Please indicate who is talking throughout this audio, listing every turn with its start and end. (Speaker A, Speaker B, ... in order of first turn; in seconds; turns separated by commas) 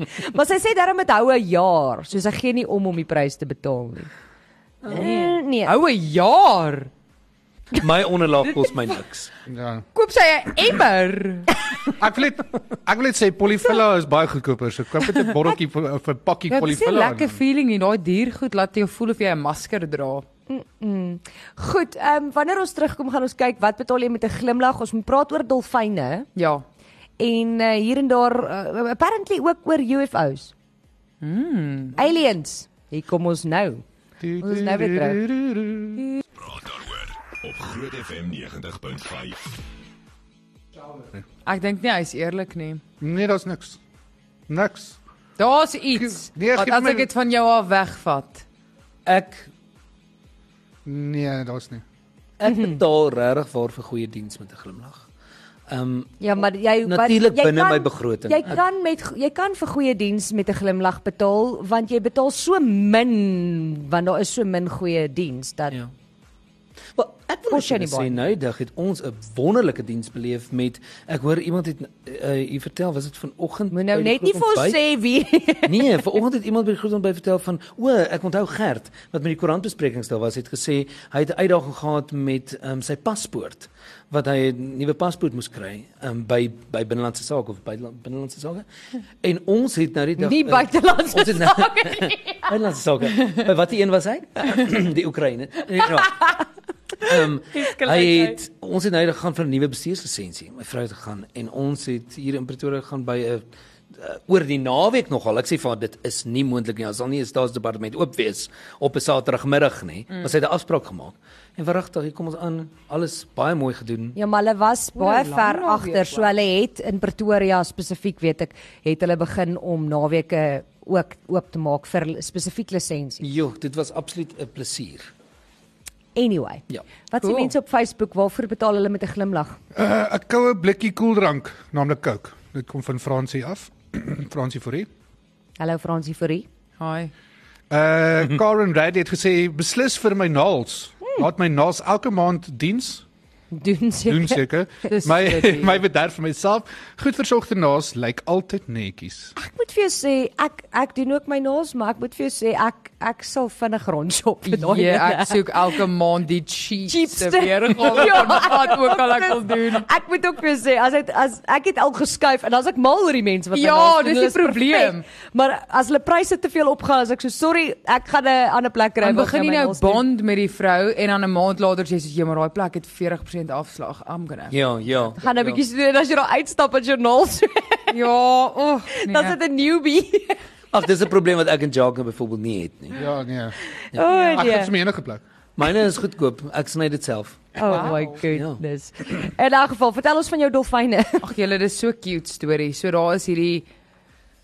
Speaker A: 0.2-4.1, Speaker A: 4.9-5.7, Speaker B: 4.9-6.9, Speaker C: 7.7-9.3, Speaker D: 9.5-9.8, Speaker B: 9.9-11.6, Speaker D: 12.0-17.4, Speaker B: 16.5-20.2, Speaker A: 20.5-26.3, Speaker B: 26.4-26.6, Speaker A: 27.2-30.5, Speaker B: 31.2-32.0, Speaker A: 32.0-33.8, Speaker D: 34.2-36.0, Speaker A: 34.4-35.2, Speaker E: 36.4-39.6, Speaker D: 40.9-41.2, Speaker B: 41.5-42.8, Speaker D: 43.0-43.8, Speaker D: 44.5-45.0, Speaker B: 45.4-48.4, Speaker D: 45.9-47.1, Speaker C: 49.1-49.5, Speaker D: 50.9-51.8, Speaker C: 52.4-55.1, Speaker A: 52.5-52.8, Speaker C: 55.7-56.2, Speaker A: 56.2-65.8, Speaker C: 56.9-58.6, Speaker C: 67.0-74.8, Speaker A: 67.5-68.2, Speaker A: 73.7-76.0, Speaker C: 75.7-88.7, Speaker C: 89.2-96.4, Speaker A: 90.2-92.5, Speaker C: 97.0-114.2, Speaker B: 97.5-98.4, Speaker A: 114.2-123.3, Speaker B: 115.0-116.3, Speaker C: 123.2-125.1, Speaker A: 126.2-129.6, Speaker B: 127.2-127.5, Speaker D: 129.7-134.9, Speaker A: 135.6-136.5, Speaker B: 136.8-137.1, Speaker D: 137.7-143.1, Speaker A: 143.5-144.4, Speaker D: 144.1-149.3, Speaker B: 144.9-145.8, Speaker A: 149.4-155.8, Speaker B: 154.5-159.9, Speaker A: 156.9-170.0, Speaker B: 163.5-165.1, Speaker B: 169.0-174.6, Speaker C: 174.5-175.6, Speaker A: 175.2-178.0, Speaker B: 177.9-179.4, Speaker A: 178.9-180.4, Speaker C: 180.7-183.1, Speaker D: 182.9-183.6, Speaker A: 183.9-184.7, Speaker D: 184.3-185.2, Speaker C: 185.6-188.6, Speaker A: 187.6-191.3, Speaker B: 187.7-188.2, Speaker B: 191.2-193.7